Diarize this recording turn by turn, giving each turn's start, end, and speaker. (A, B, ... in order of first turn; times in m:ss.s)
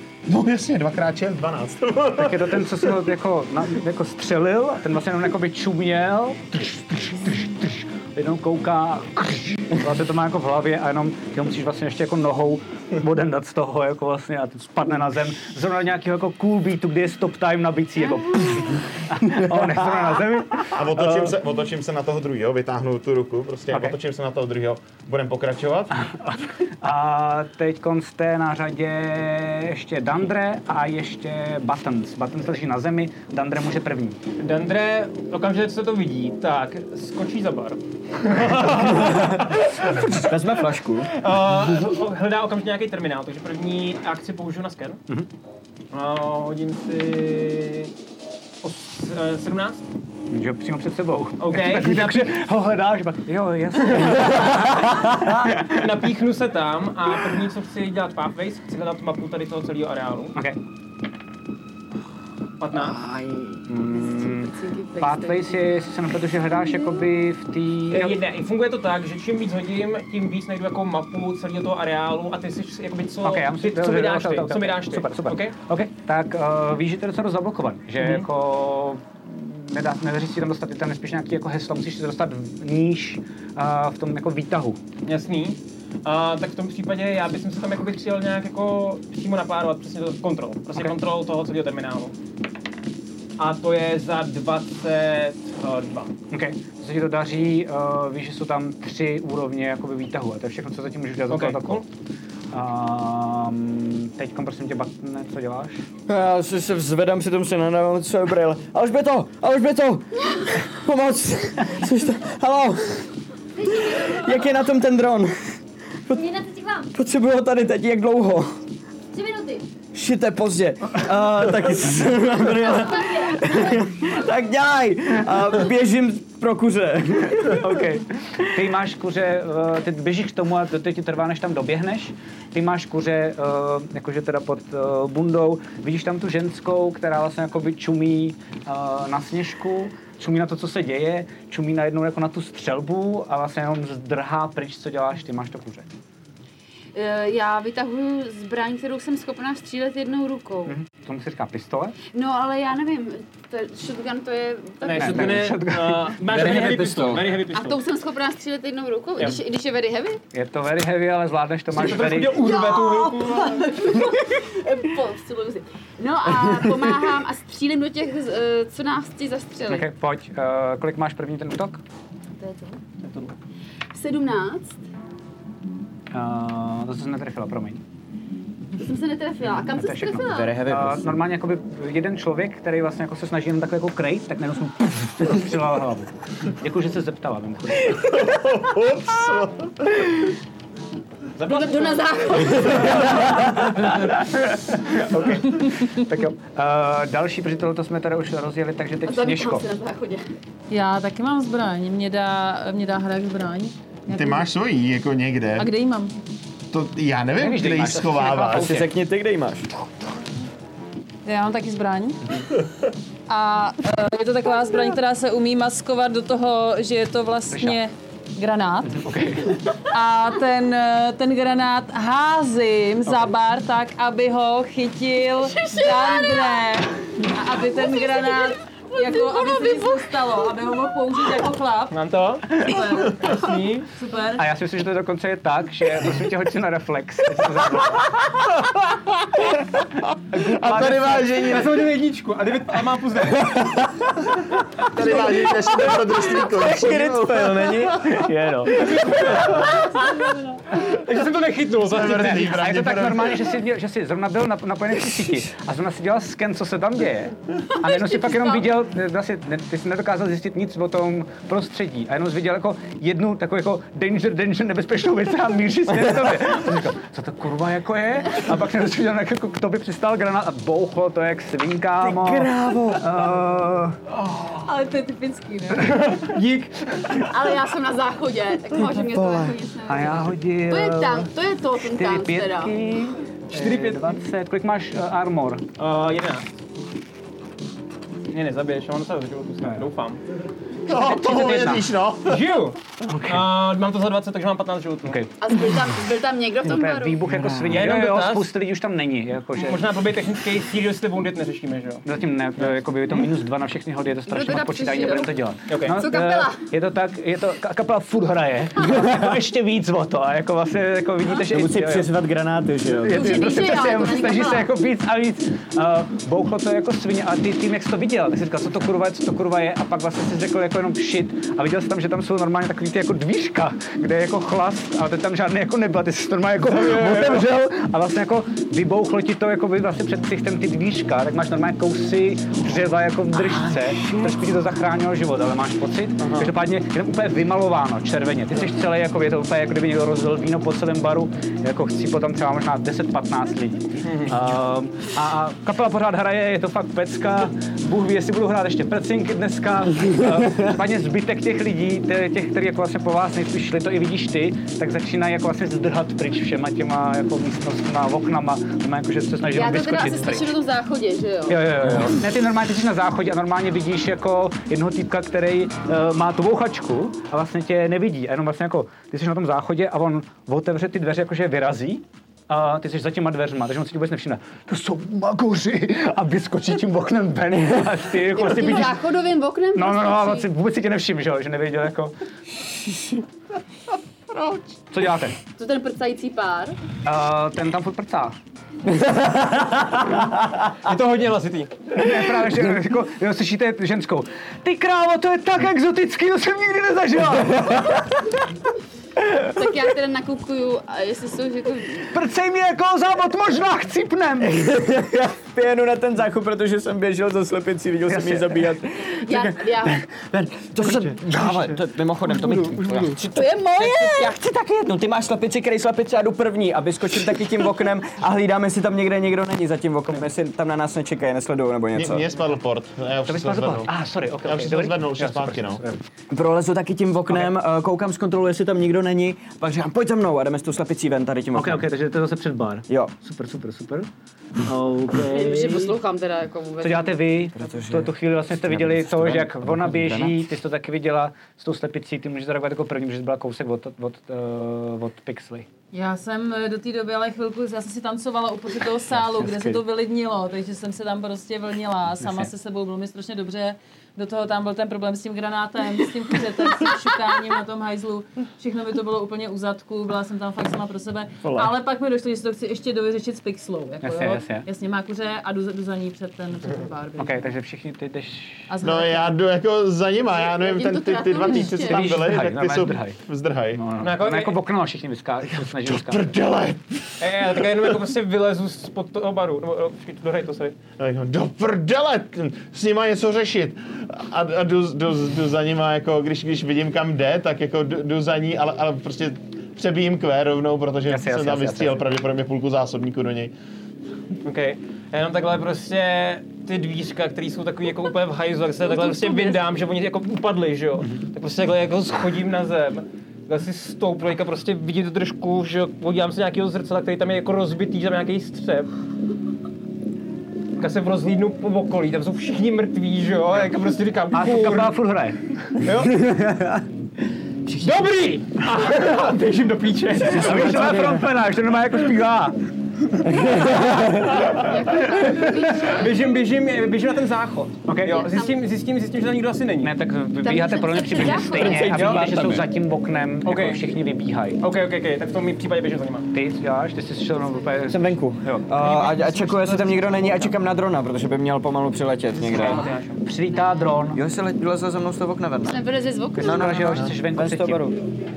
0:00.3-0:02.9 A
0:02.2-0:21.4 B
0:20.7-0:26.0 A
0:23.7-0:24.0 B
0:26.0-0:34.2 B
0:34.4-0:40.0 C
0:39.9-0:41.1 D
0:41.1-0:45.0 C
0:45.9-0:47.9 C
0:48.6-0:49.8 C
0:50.3-0:55.8 B
0:51.4-0:52.3 C
0:55.6-1:00.4 C
1:02.6-1:03.0 C
1:02.9-1:03.6 D
1:03.7-1:08.2 B
1:03.9-1:05.8 E
1:07.9-1:15.6 C
1:13.2-1:24.8 B
1:18.0-1:18.3 C
1:25.1-1:32.1 C
1:33.4-1:36.1 C
1:36.3-1:41.8 B
1:41.3-1:41.8 C
1:42.5-1:45.9 B
1:46.1-1:53.1 D
1:53.6-1:54.4 F
1:53.8-1:55.6 D
1:56.1-1:56.9 F
1:56.9-1:58.6 D
1:59.1-1:59.6 F
1:59.9-2:07.8 D
2:02.6-2:03.8 F
2:07.5-2:25.9 B
2:26.9-2:30.8 E
2:30.7-2:32.0 B
2:32.1-2:35.5 E
2:34.8-2:37.8 C
2:34.9-2:36.2 B
2:36.3-2:37.4 D
2:37.5-2:40.2 E
2:40.3-2:42.4 B
2:41.7-2:43.6 C
2:42.4-2:49.9 E
2:49.7-2:51.8 B
2:52.4-2:52.8 E
2:53.0-2:53.4 C
2:53.9-2:54.8 E
2:56.1-2:57.8 B
2:58.8-3:00.6 E
2:59.6-3:08.1 B
3:00.2-3:01.1 D
3:07.9-3:10.3 A
3:11.4-3:13.4 E
3:11.4-3:12.0 C
3:13.4-3:19.7 B
3:19.0-3:20.2 E
3:20.7-3:24.4 G
3:24.1-3:25.7 A
3:25.6-3:26.1 G
3:26.7-3:28.8 A
3:27.4-3:28.9 B
3:28.5-3:29.7 D
3:31.2-3:32.4 G
3:33.3-3:39.1 G
3:37.5-3:37.8 B
3:38.8-3:39.6 B
3:39.9-3:52.0 G
3:45.5-3:46.8 E
3:47.7-3:50.5 E
3:51.9-3:53.9 C
3:52.6-3:53.4 G
3:53.9-3:54.4 G
3:54.4-3:58.2 B
3:58.7-3:59.2 A
4:00.3-4:01.8 A
4:00.6-4:01.3 B
4:00.7-4:03.7 C
4:03.4-4:04.1 D
4:04.9-4:08.2 A
4:05.0-4:09.5 D
4:08.2-4:08.9 B
4:08.9-4:10.0 C
4:10.8-4:12.6 C
4:11.8-4:13.5 A
4:12.2-4:34.0 B
4:14.9-4:15.5 D
4:17.8-4:18.6 E
4:25.9-4:26.4 D
4:32.0-4:33.1 D
4:34.6-4:36.0 G
4:35.8-4:37.3 C
4:37.2-4:42.8 E
4:38.7-4:39.6 D
4:39.9-4:41.3 B
4:41.8-4:45.7 B
4:43.5-4:44.2 C
4:45.8-4:46.5 C
4:48.3-4:50.2 C
4:49.6-4:49.9 B
4:50.9-4:52.5 A
4:51.0-4:55.2 C
4:51.4-4:51.8 B
4:53.1-4:53.5 B
4:55.0-4:55.3 B
4:55.4-4:57.2 E
4:56.7-4:59.9 B
4:57.2-4:57.9 D
4:57.7-4:58.5 C
4:59.6-5:02.0 C
5:02.0-5:12.1 B
5:04.3-5:05.4 E
5:05.7-5:06.1 C
5:05.9-5:06.6 E
5:11.5-5:13.3 D
5:13.0-6:00.6 B
5:13.1-5:14.7 E
5:26.7-5:27.5 C
5:33.4-5:34.4 D
5:36.2-5:36.5 C
5:44.0-5:44.4 C
5:59.5-6:01.7 E
6:01.5-6:19.0 B
6:18.4-6:20.5 E
6:19.8-6:22.2 B
6:24.3-6:24.7 A
6:24.9-6:25.4 B
6:25.6-6:26.8 E
6:27.0-6:28.4 B
6:28.9-6:30.5 D
6:30.8-6:31.7 C
6:31.9-6:38.0 B
6:32.2-6:32.5 D
6:37.5-6:38.0 D
6:39.4-6:42.1 E
6:42.1-6:44.7 B
6:44.4-7:02.3 D
6:48.1-6:48.7 B
6:49.2-6:50.0 E
6:51.1-6:51.8 B
6:52.5-6:53.0 B
6:53.4-6:54.4 E
7:01.9-7:03.9 A
7:03.3-7:06.0 B
7:04.4-7:05.8 A
7:06.3-7:11.9 D
7:11.5-7:14.1 B
7:12.9-7:13.1 D
7:14.6-7:16.0 B
7:15.3-7:17.2 E
7:16.8-7:25.7 B
7:17.5-7:20.4 D
7:25.9-7:47.5 G
7:29.2-7:29.8 B
7:32.2-7:32.5 B
7:44.0-7:44.7 B
7:47.2-7:48.7 B
7:48.7-7:49.3 G
7:48.8-7:53.8 A
7:50.4-7:52.2 E
7:51.8-7:53.2 B
7:53.8-7:56.4 B
7:54.0-7:54.6 C
7:55.6-7:57.9 A
7:57.2-8:00.8 C
8:01.0-8:13.5 A
8:11.1-8:12.0 B
8:14.4-8:28.9 C
8:30.8-8:35.0 C
8:34.3-8:35.4 B
8:35.8-8:36.2 C
8:35.9-8:36.8 D
8:37.7-8:38.0 D
8:37.8-8:41.1 C
8:40.2-8:41.3 D
8:40.3-8:42.6 B
8:43.2-8:44.5 D
8:44.5-8:46.3 E
8:44.6-8:45.5 B
8:45.0-8:49.9 C
8:47.9-8:48.2 B
8:48.1-8:48.6 E
8:49.8-8:54.6 B
8:50.4-8:52.0 E
8:51.4-8:52.6 D
8:51.9-8:52.3 C
8:53.4-8:53.9 C
8:54.6-8:56.3 C
8:56.3-8:58.7 B
8:57.9-9:02.9 D
8:58.8-9:00.5 C
9:02.4-9:03.2 C
9:02.5-9:04.2 B
9:03.5-9:03.8 E
9:04.1-9:05.8 D
9:05.6-9:07.0 E
9:06.4-9:07.9 B
9:06.4-9:08.0 D